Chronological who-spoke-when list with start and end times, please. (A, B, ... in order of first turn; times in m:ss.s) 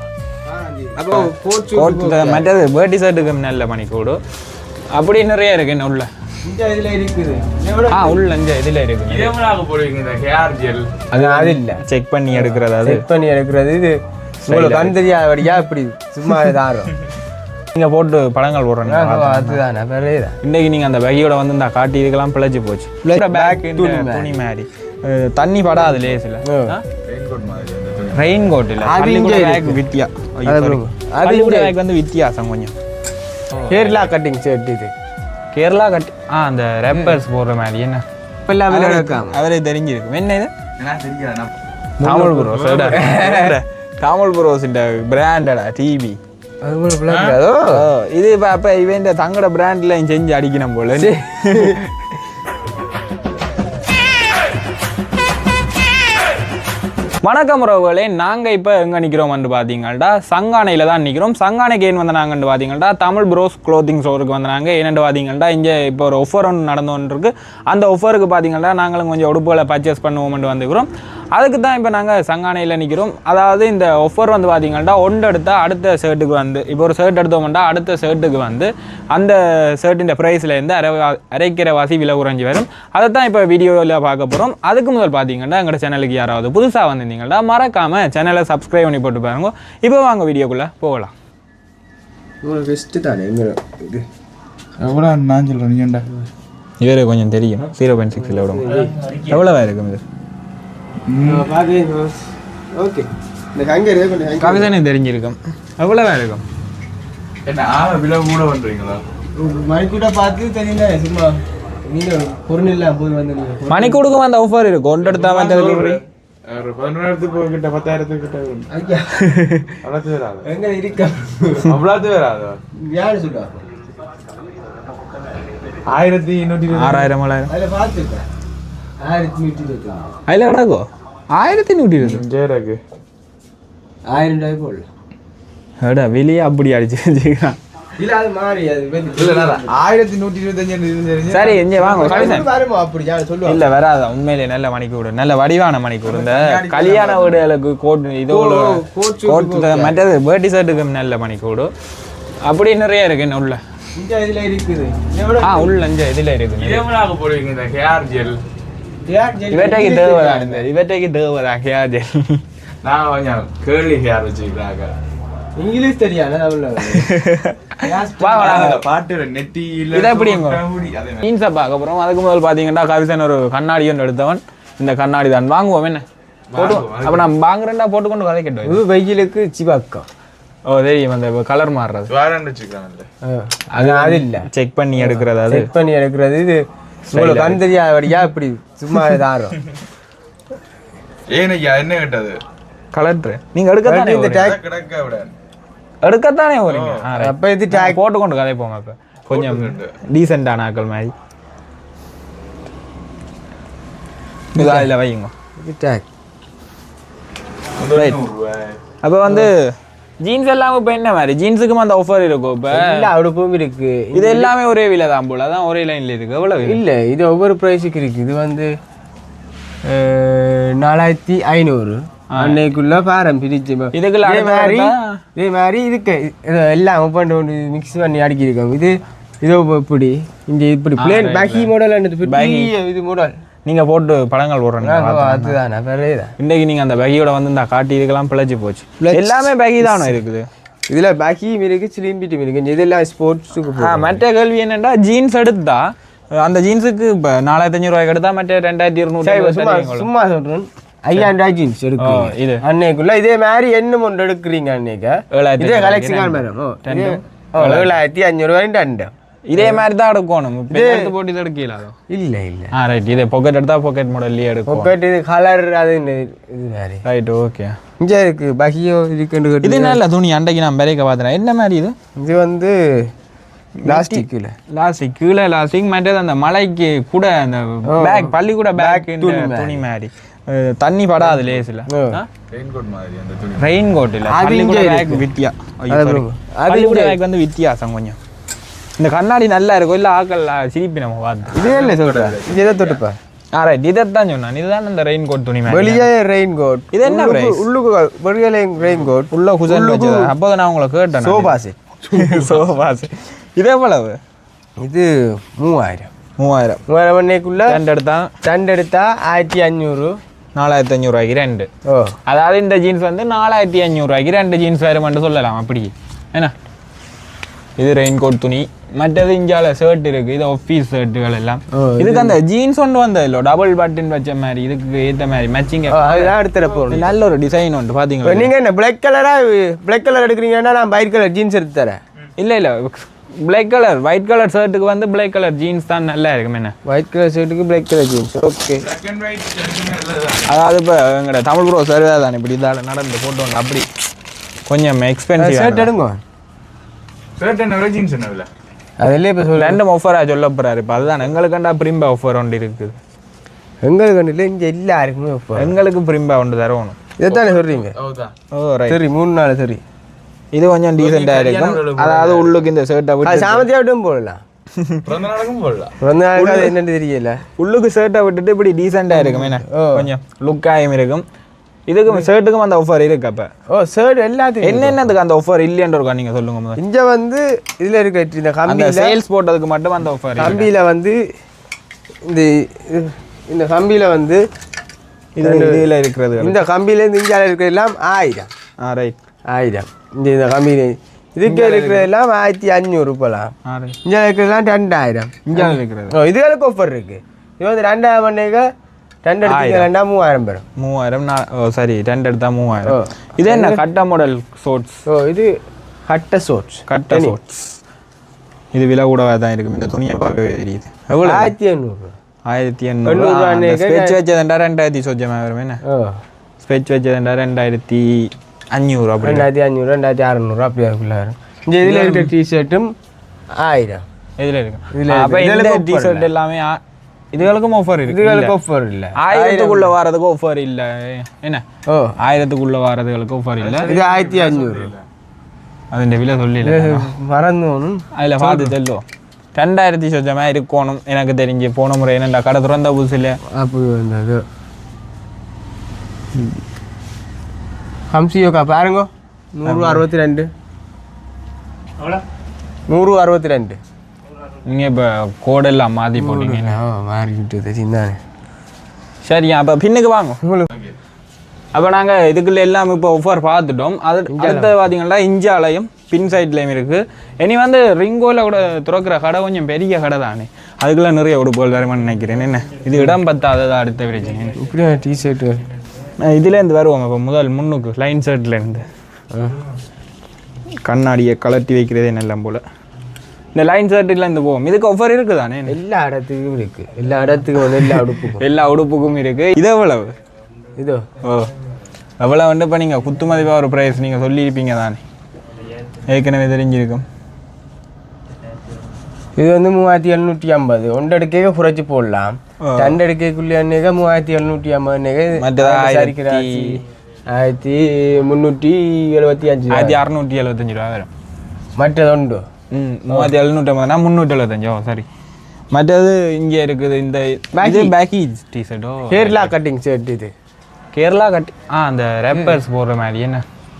0:00.4-0:02.5 A
0:01.0-0:04.2 B
0:04.9-0:06.1 B
0:06.4-0:08.3 A
0:07.9-0:09.3 B
0:09.1-0:10.9 C
0:11.1-0:13.0 B
0:11.1-0:16.9 A
0:14.4-0:15.0 B
0:17.7-0:19.6 B
0:18.8-0:20.4 A
0:20.4-0:26.8 B
0:23.0-0:24.4 A
0:26.4-0:26.8 A
0:27.0-0:28.3 C
0:28.1-0:32.7 B
0:28.8-0:29.8 A
0:30.4-0:31.7 A
0:33.5-0:34.0 C
0:33.7-0:34.9 A
0:35.5-0:38.0 B
0:36.9-0:37.2 A
0:38.4-0:39.4 A
0:38.7-0:40.5 B
0:40.8-0:41.5 C
0:42.0-0:43.6 A
0:42.0-0:46.2 B
0:42.5-0:43.3 C
0:46.6-0:47.9 A
0:47.1-0:47.4 C
0:47.7-0:52.1 B
0:50.9-0:51.8 A
0:57.2-1:31.1 B
1:32.4-1:34.0 A
1:34.8-1:36.1 C
1:36.8-1:40.0 B
1:38.2-1:39.0 A
1:38.7-1:39.4 C
1:41.1-1:41.5 C
1:41.2-1:42.2 A
1:42.7-1:44.7 A
1:44.4-1:46.4 B
1:47.4-1:49.0 C
1:49.4-1:54.0 A
1:53.7-1:56.0 B
1:55.0-1:58.7 C
1:58.7-1:59.2 A
1:59.2-1:59.8 B
1:59.8-2:00.5 C
2:00.4-2:01.8 A
2:01.6-2:02.6 C
2:02.9-2:03.6 A
2:05.8-2:07.1 C
2:06.7-2:07.5 B
2:07.5-2:08.2 A
2:09.0-2:10.2 A
2:10.3-2:12.2 B
2:12.0-2:12.8 C
2:14.1-2:14.9 A
2:15.8-2:17.6 B
2:18.0-2:19.7 A
2:19.1-2:22.4 C
2:21.3-2:22.5 B
2:21.9-2:23.6 A
2:23.4-2:31.7 B
2:26.0-2:27.4 C
2:28.3-2:30.0 A
2:32.4-2:33.6 B
2:33.9-2:35.8 A
2:35.4-2:36.8 B
2:36.5-2:38.4 C
2:39.0-2:40.7 A
2:39.5-2:42.4 B
2:42.8-2:44.9 C
2:45.6-2:47.1 A
2:46.9-2:48.8 B
2:47.8-2:48.8 A
2:48.3-2:51.2 C
2:49.9-2:50.6 B
2:51.2-2:58.8 B
2:56.5-2:57.3 C
2:58.6-3:00.1 A
3:00.6-3:02.1 B
3:02.1-3:03.1 C
3:03.2-3:09.6 A
3:03.7-3:05.7 B
3:07.1-3:07.6 B
3:11.3-3:12.4 C
3:12.9-3:14.5 B
3:13.8-3:14.6 A
3:14.4-3:15.3 C
3:16.0-3:21.1 B
3:16.6-3:17.1 C
3:17.1-3:18.0 A
3:19.3-3:20.0 C
3:24.6-3:24.9 A
3:24.6-3:25.3 B
3:25.6-3:26.0 A
3:27.8-3:28.8 C
3:27.9-3:28.2 B
3:29.0-3:33.0 B
3:32.7-3:34.5 A
3:34.1-3:36.8 B
3:36.6-3:38.7 A
3:39.8-3:53.4 A
3:42.3-3:42.6 B
3:43.9-3:45.2 B
3:51.0-3:51.7 B
3:52.2-3:52.7 B
3:53.6-3:55.6 B
3:54.8-3:56.3 A
3:56.4-4:00.5 B
3:59.0-4:00.2 A
4:00.9-4:04.2 A
4:03.8-4:10.1 B
4:09.2-4:19.8 A
4:12.0-4:12.6 B
4:15.3-4:18.0 B
4:19.4-4:22.0 B
4:20.7-4:21.1 A
4:22.1-4:22.7 A
4:22.7-4:24.9 B
4:24.7-4:27.0 A
4:27.0-4:27.8 B
4:28.0-4:30.0 A
4:29.6-4:31.9 B
4:32.2-4:33.1 A
4:33.8-4:42.3 B
4:33.8-4:34.6 A
4:37.9-4:39.8 A
4:41.9-4:42.2 A
4:42.5-4:43.8 C
4:43.6-4:48.2 B
4:44.3-4:45.3 A
4:45.9-4:47.2 A
4:49.0-4:51.7 B
4:51.5-4:53.0 C
4:51.5-4:53.2 A
4:53.5-4:56.1 B
4:55.7-5:00.3 A
4:56.9-4:57.6 B
4:59.3-5:01.5 B
5:01.2-5:01.8 A
5:02.0-5:04.2 B
5:02.2-5:02.7 C
5:04.8-5:06.1 A
5:06.4-5:06.8 B
5:06.9-5:07.8 A
5:07.7-5:08.3 B
5:08.4-5:10.2 A
5:10.5-5:11.7 B
5:11.8-5:12.2 A
5:12.2-5:16.5 B
5:17.8-5:26.3 B
5:21.7-5:22.4 A
5:25.9-5:27.1 A
5:26.9-5:28.5 B
5:28.2-5:32.0 A
5:32.4-5:36.7 B
5:36.8-5:38.8 A
5:38.8-5:40.5 C
5:40.4-5:43.8 B
5:44.7-5:45.9 B
5:45.4-5:46.2 A
5:47.4-5:48.5 C
5:49.0-5:49.8 A
5:49.5-5:53.0 B
5:53.8-5:55.8 A
5:55.6-5:57.0 B
5:57.2-5:58.0 A
5:57.3-5:58.3 C
5:58.5-5:59.0 B
5:58.9-5:59.8 A
6:00.5-6:03.6 B
6:01.0-6:02.7 C
6:03.2-6:04.4 A
6:05.0-6:06.0 C
6:06.0-6:07.4 A
6:06.4-6:06.7 B
6:07.6-6:11.2 B
6:09.1-6:10.1 A
6:11.9-6:13.5 B
6:13.7-6:15.1 A
6:14.6-6:16.8 B
6:16.8-6:19.2 A
6:18.6-6:20.7 B
6:20.4-6:21.2 A
6:22.2-6:24.4 A
6:25.4-6:26.6 B
6:25.4-6:25.8 A
6:26.4-6:28.5 A
6:28.8-6:29.2 B
6:29.5-6:33.5 A
6:31.4-6:32.1 B
6:33.6-6:34.0 B
6:34.0-6:38.7 A
6:35.4-6:36.1 B
6:39.2-6:40.6 A
6:39.4-6:39.9 B
6:40.8-6:45.0 B
6:42.8-6:43.8 A
6:45.0-6:47.4 A
6:46.9-6:47.8 B
6:48.7-6:51.5 B
6:51.2-6:52.1 A
6:52.4-6:55.8 B
6:53.0-6:54.2 A
6:55.8-6:56.2 A
6:56.6-6:59.5 B
6:59.2-7:02.9 A
7:01.8-7:02.3 B
7:03.6-7:04.0 A
7:04.4-7:06.8 B
7:04.9-7:06.3 A
7:07.3-7:08.5 B
7:08.0-7:09.9 A
7:09.2-7:11.6 B
7:11.8-7:12.2 A
7:12.2-7:13.9 B
7:13.6-7:15.0 C
7:13.8-7:14.9 A
7:15.9-7:17.1 B
7:16.6-7:18.7 A
7:18.2-7:23.4 B
7:23.5-7:24.4 A
7:28.1-7:30.5 A
7:29.7-7:30.0 B
7:32.9-7:33.8 A
7:34.6-7:36.8 B
7:36.2-7:38.2 A
7:39.2-7:40.4 B
7:40.4-7:40.7 A
7:40.7-7:41.0 C
7:41.7-7:54.6 B
7:44.3-7:44.8 A
7:54.6-7:55.6 A
7:56.2-7:58.8 B
7:59.3-7:59.6 A
8:00.8-8:02.6 B
8:03.5-8:05.8 B
8:05.7-8:08.4 A
8:07.8-8:10.1 B
8:10.8-8:11.0 A
8:11.2-8:11.5 B
8:12.2-8:15.0 B
8:16.0-8:17.0 B
8:19.4-8:30.0 A
8:22.6-8:23.0 B
8:25.4-8:26.8 B
8:29.7-8:31.1 B
8:31.8-8:32.4 A
8:32.7-8:35.0 B
8:33.1-8:33.3 A
8:35.7-8:39.5 B
8:37.5-8:38.0 A
8:39.1-8:40.3 A
8:40.9-8:43.4 B